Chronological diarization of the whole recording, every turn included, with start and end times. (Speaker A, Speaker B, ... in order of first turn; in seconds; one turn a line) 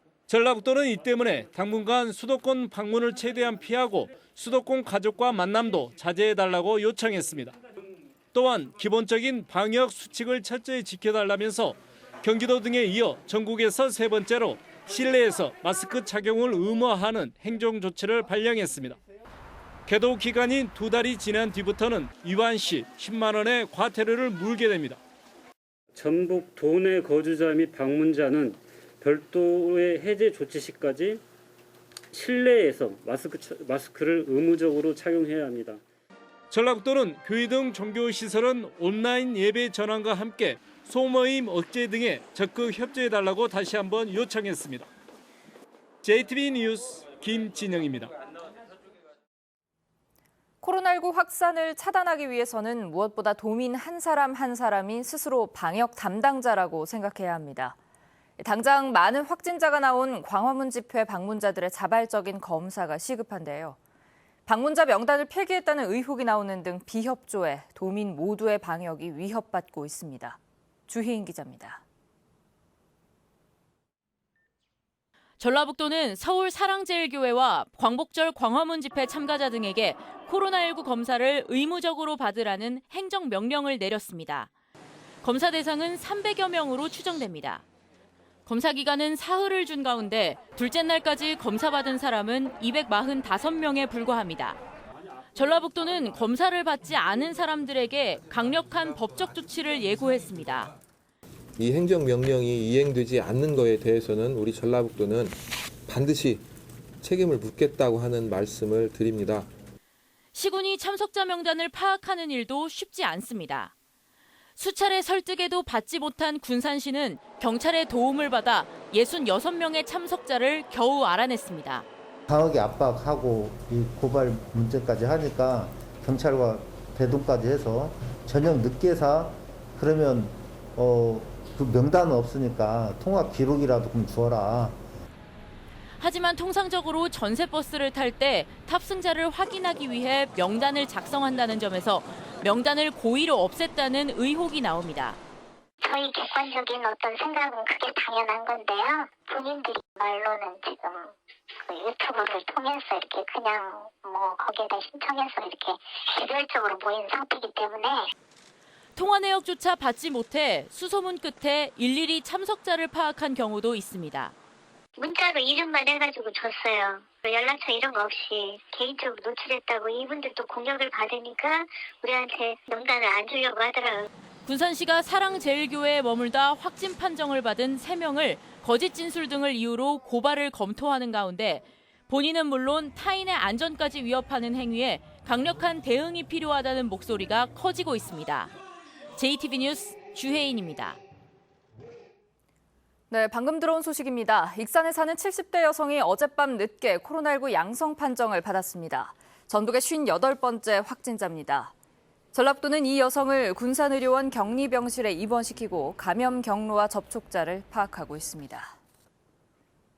Speaker A: 0.3-7.5
Speaker A: 8.3-19.0
Speaker A: 19.9-25.0
Speaker B: 25.9-31.2
Speaker B: 32.1-35.8
Speaker A: 36.5-44.9
Speaker A: 46.0-48.1
Speaker C: 50.6-57.8
Speaker C: 58.4-63.8
Speaker C: 64.5-71.8
Speaker D: 75.4-84.5
Speaker D: 85.2-87.6
Speaker D: 88.5-94.6
Speaker D: 95.3-100.7
Speaker E: 101.6-105.2
Speaker A: 101.6-103.4
Speaker A: 104.2-104.7
Speaker A: 105.9-106.4
Speaker E: 105.9-106.3
Speaker A: 107.0-107.5
Speaker E: 107.0-109.4
Speaker A: 108.9-109.4
Speaker D: 110.3-113.7
Speaker D: 114.6-121.8
Speaker F: 122.3-134.8
Speaker D: 136.0-145.2
Speaker G: 145.8-151.1
Speaker G: 151.7-158.1
Speaker D: 159.0-164.3
Speaker G: 165.0-174.1
Speaker D: 174.5-188.5
Speaker D: 189.2-191.0
Speaker C: 193.1-201.7
Speaker C: 202.3-208.8